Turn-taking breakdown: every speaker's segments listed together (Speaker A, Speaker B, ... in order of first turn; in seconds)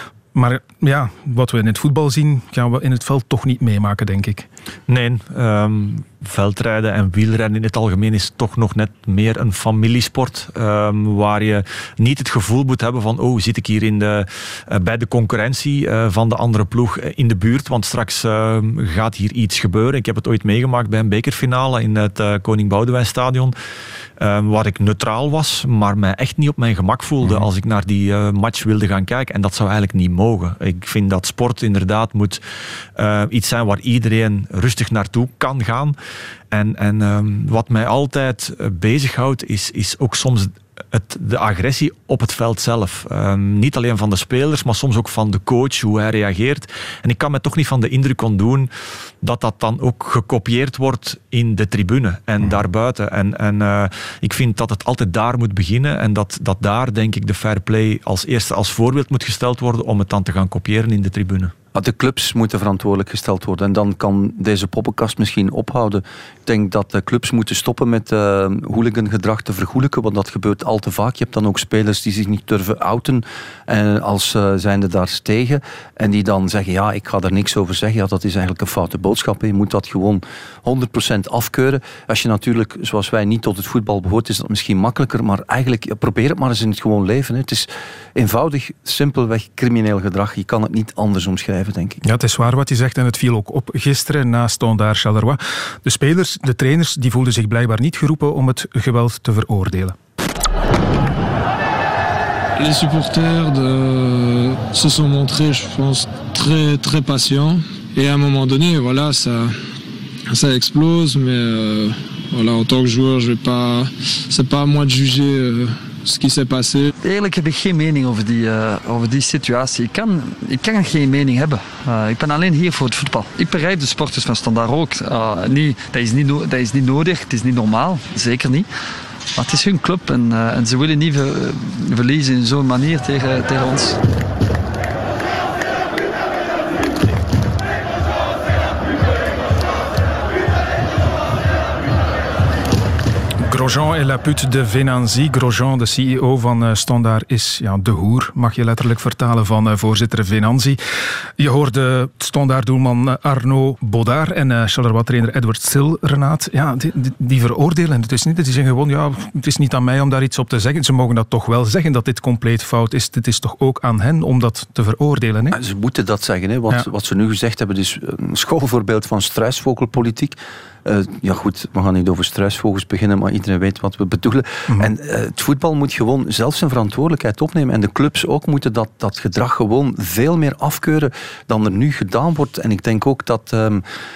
Speaker A: 0.3-4.5, 92.0-100.0, 143.4-150.8, 151.4-165.6
Speaker B: 4.9-23.6, 24.2-32.4, 33.0-36.0, 36.5-48.7, 49.2-61.5
Speaker C: 61.8-92.0, 165.5-183.8
Speaker D: 102.6-109.6, 110.3-116.9
Speaker E: 117.0-128.7, 129.3-134.0